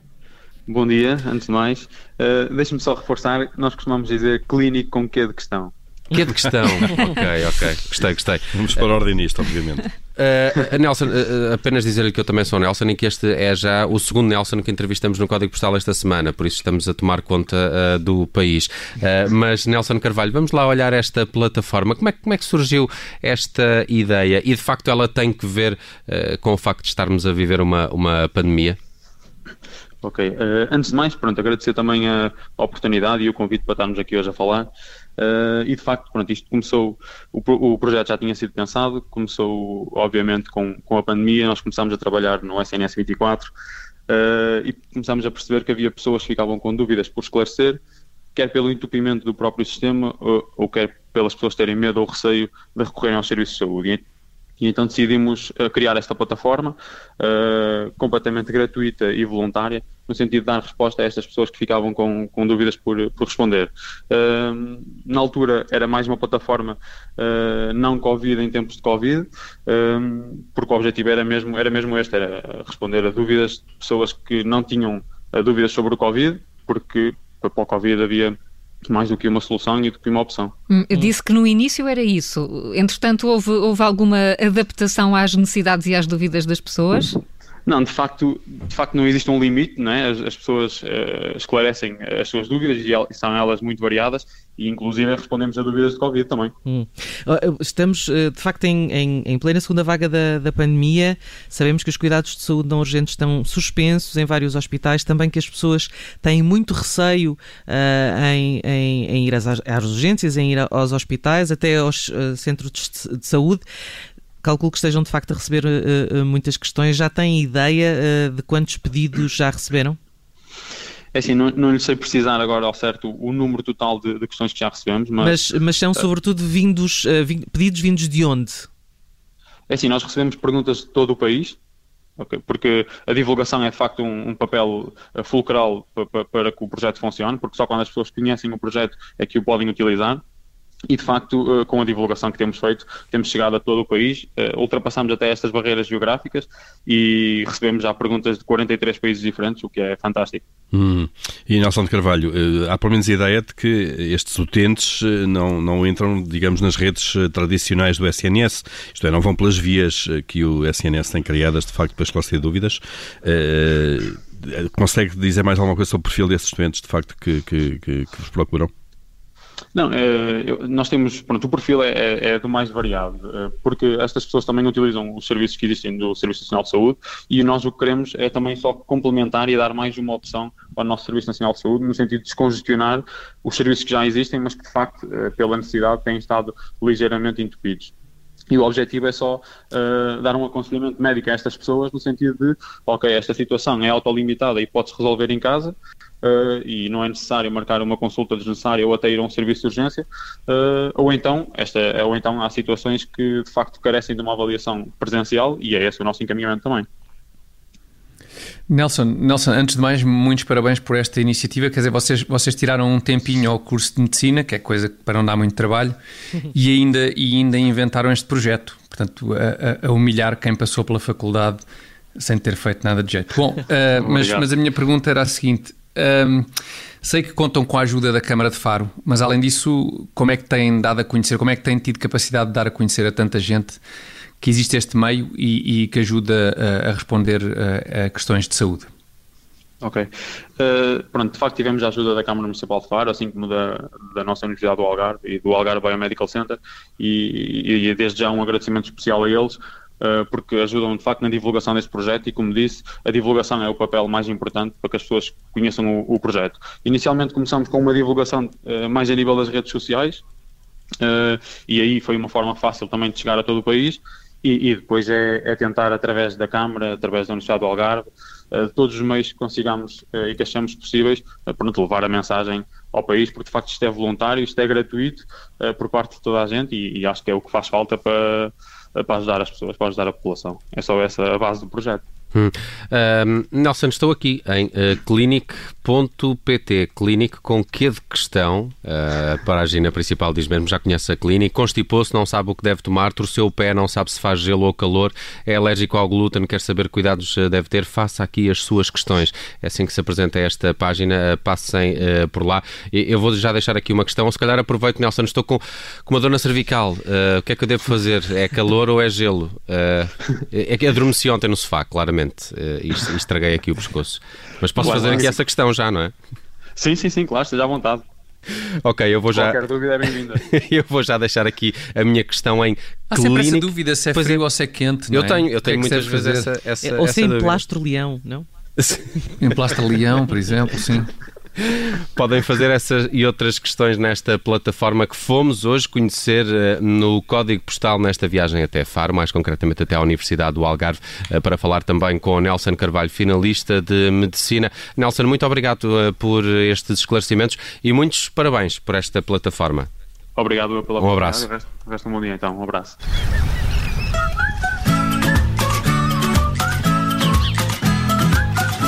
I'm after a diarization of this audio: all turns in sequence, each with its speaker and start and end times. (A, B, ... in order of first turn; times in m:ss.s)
0:00.7-0:05.7 A
0:06.1-0:08.4 B
0:08.5-0:09.9 C
0:10.2-0:28.8 B
0:30.0-0:43.5 A
0:44.1-0:47.8 A
0:48.4-0:54.0 A
0:54.6-1:18.3 A
1:18.9-1:20.5 A
1:20.7-1:27.2 D
1:27.6-1:36.5 A
1:36.6-1:53.6 E
1:54.4-2:00.0 E
2:01.1-2:05.4 A
2:05.2-2:08.7 E
2:09.7-2:11.6 A
2:12.2-2:20.2 A
2:20.9-2:30.4 A
2:30.7-2:48.7 C
2:49.7-3:07.9 A
3:08.5-3:26.8 A
3:28.7-3:35.9 F
3:36.5-3:41.6 F
3:42.2-3:46.4 F
3:44.0-3:44.4 A
3:47.0-3:53.8 F
3:54.4-3:58.9 F
3:59.8-4:00.1 A
4:00.6-4:20.2 A
4:21.0-4:42.0 A
4:42.3-5:16.1 B
5:14.8-5:15.4 A
5:16.8-5:18.0 A
5:18.5-5:19.6 B
5:19.3-5:20.4 A
5:20.2-5:24.4 B
5:23.1-5:26.5 F
5:25.1-5:27.6 B
5:26.8-5:28.5 E
5:29.4-5:31.1 F
5:31.8-5:49.9 B
5:50.4-5:53.0 A
5:51.0-5:51.5 B